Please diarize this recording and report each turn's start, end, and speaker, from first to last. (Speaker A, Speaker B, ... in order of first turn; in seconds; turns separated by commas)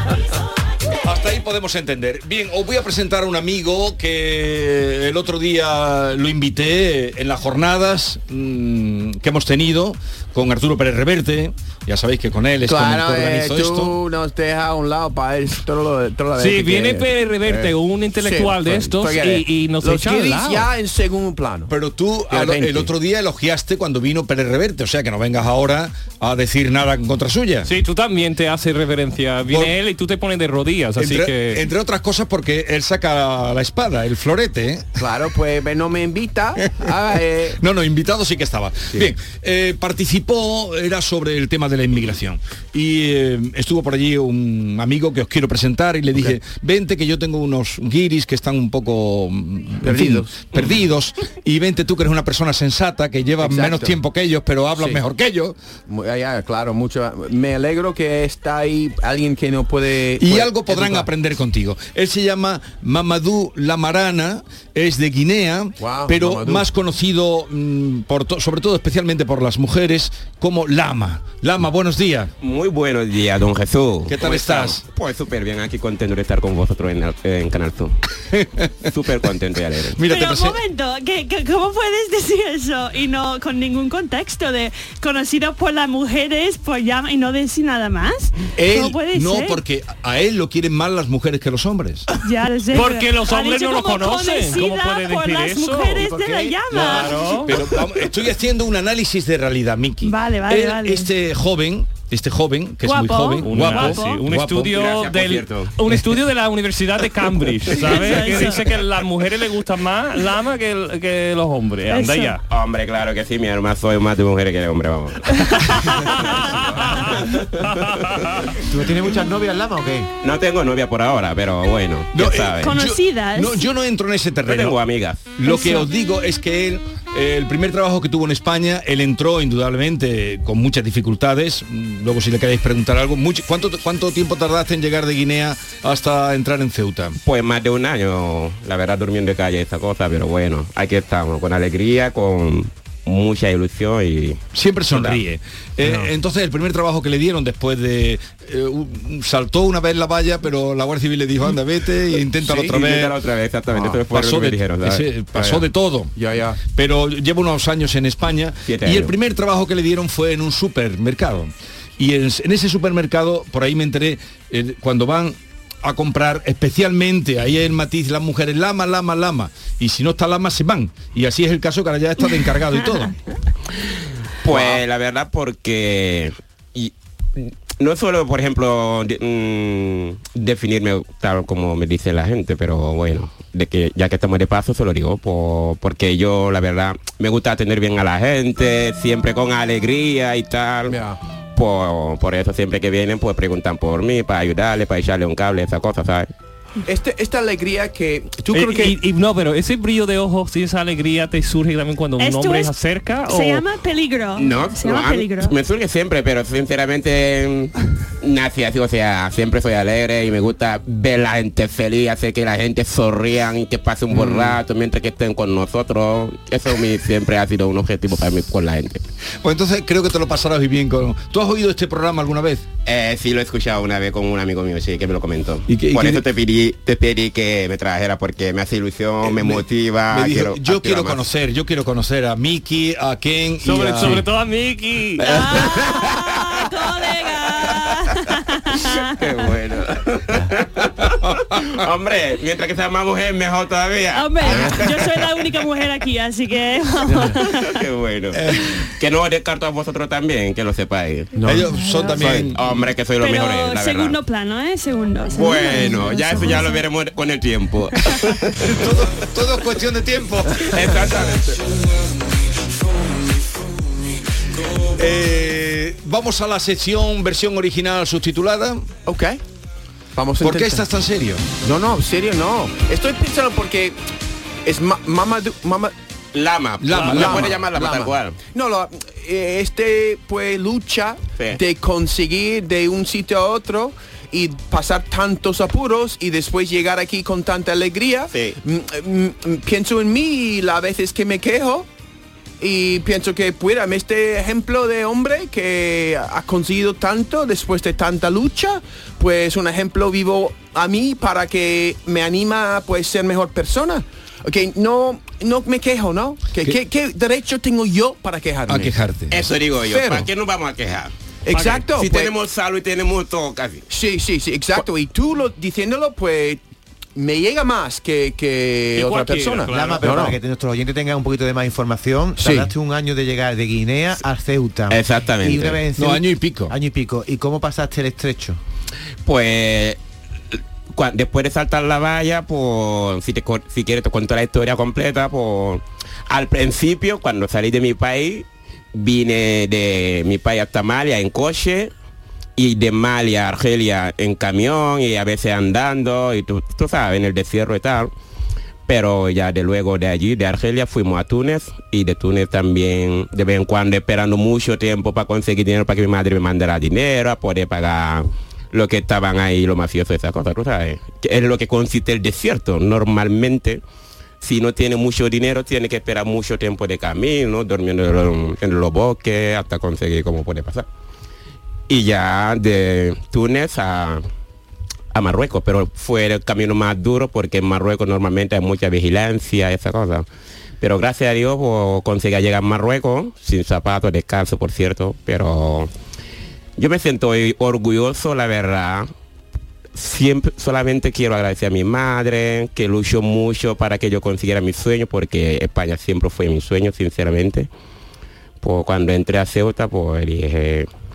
Speaker A: 1.0-14.0, Speaker B: 12.6-21.7, Speaker C: 16.4-20.7, Speaker A: 21.7-27.7, Speaker B: 22.3-22.9, Speaker C: 27.6-31.6, Speaker A: 29.5-29.7, Speaker A: 30.9-34.9, Speaker B: 35.0-37.6, Speaker A: 36.6-37.0, Speaker A: 37.6-55.6, Speaker B: 49.8-50.5, Speaker B: 53.4-54.0, Speaker B: 55.9-61.1, Speaker A: 60.2-72.3, Speaker B: 65.8-66.7, Speaker D: 72.4-77.9, Speaker A: 74.1-74.8, Speaker A: 78.3-78.9, Speaker D: 78.8-80.0, Speaker A: 80.0-80.6, Speaker E: 80.0-89.6, Speaker A: 88.6-92.1, Speaker E: 92.2-97.5, Speaker C: 92.7-96.1, Speaker F: 96.0-96.6, Speaker A: 96.7-104.9, Speaker C: 96.7-97.6, Speaker E: 100.0-101.1, Speaker E: 102.8-104.2, Speaker C: 103.4-112.4, Speaker D: 104.7-105.7, Speaker E: 107.7-108.7, Speaker E: 111.9-112.4, Speaker D: 112.5-115.3, Speaker E: 115.3-116.0, Speaker C: 115.9-118.6, Speaker D: 116.3-117.7, Speaker F: 118.6-120.1, Speaker D: 120.2-122.7, Speaker A: 122.1-137.2, Speaker E: 122.6-123.7, Speaker D: 124.5-125.2, Speaker E: 125.4-125.9, Speaker D: 137.2-145.2, Speaker A: 144.5-153.2, Speaker B: 145.8-146.1, Speaker D: 152.4-155.1, Speaker B: 153.7-154.0, Speaker A: 154.1-156.1, Speaker B: 155.3-156.6, Speaker A: 156.7-173.1, Speaker D: 158.7-159.1, Speaker D: 174.4-190.9, Speaker B: 174.5-174.8, Speaker B: 190.9-191.2, Speaker D: 191.5-196.3, Speaker B: 196.8-199.0, Speaker C: 198.5-203.6, Speaker E: 202.2-202.7, Speaker E: 203.2-205.5, Speaker D: 204.3-219.0, Speaker A: 219.4-222.6, Speaker D: 222.8-231.2, Speaker A: 225.7-226.2, Speaker A: 229.2-234.2, Speaker C: 233.6-235.7, Speaker E: 235.2-239.1, Speaker A: 235.4-236.0, Speaker D: 238.8-245.2, Speaker E: 244.1-247.6, Speaker B: 244.5-244.7, Speaker B: 247.1-247.4, Speaker D: 247.4-251.3, Speaker A: 248.3-248.8, Speaker B: 251.3-251.7, Speaker A: 251.4-252.9, Speaker E: 251.7-252.2, Speaker D: 252.2-254.2, Speaker E: 253.2-256.8, Speaker D: 255.3-258.1, Speaker A: 258.4-261.3, Speaker D: 260.6-261.6, Speaker A: 264.9-268.9, Speaker B: 269.1-269.4, Speaker B: 270.1-270.8, Speaker A: 270.4-271.5, Speaker B: 271.6-273.9, Speaker B: 274.6-275.9, Speaker D: 276.3-278.4, Speaker A: 276.8-277.5, Speaker C: 276.9-277.2, Speaker B: 277.1-291.9, Speaker D: 288.3-288.6, Speaker B: 292.6-308.9, Speaker A: 308.7-309.5, Speaker D: 309.3-311.1, Speaker B: 309.8-310.3, Speaker B: 311.4-312.3, Speaker C: 311.5-311.8, Speaker D: 311.9-313.8, Speaker B: 313.9-316.6, Speaker B: 317.1-320.4, Speaker C: 318.9-320.3, Speaker F: 319.7-328.6, Speaker B: 322.4-322.7, Speaker D: 324.9-325.8, Speaker A: 325.9-326.7, Speaker D: 329.2-330.0, Speaker D: 330.9-341.9, Speaker D: 342.6-348.1, Speaker D: 348.9-363.8, Speaker D: 364.4-370.9, Speaker D: 371.9-374.2, Speaker D: 375.1-380.2, Speaker D: 380.8-385.9, Speaker D: 386.8-389.1, Speaker D: 389.9-397.7, Speaker D: 398.6-400.9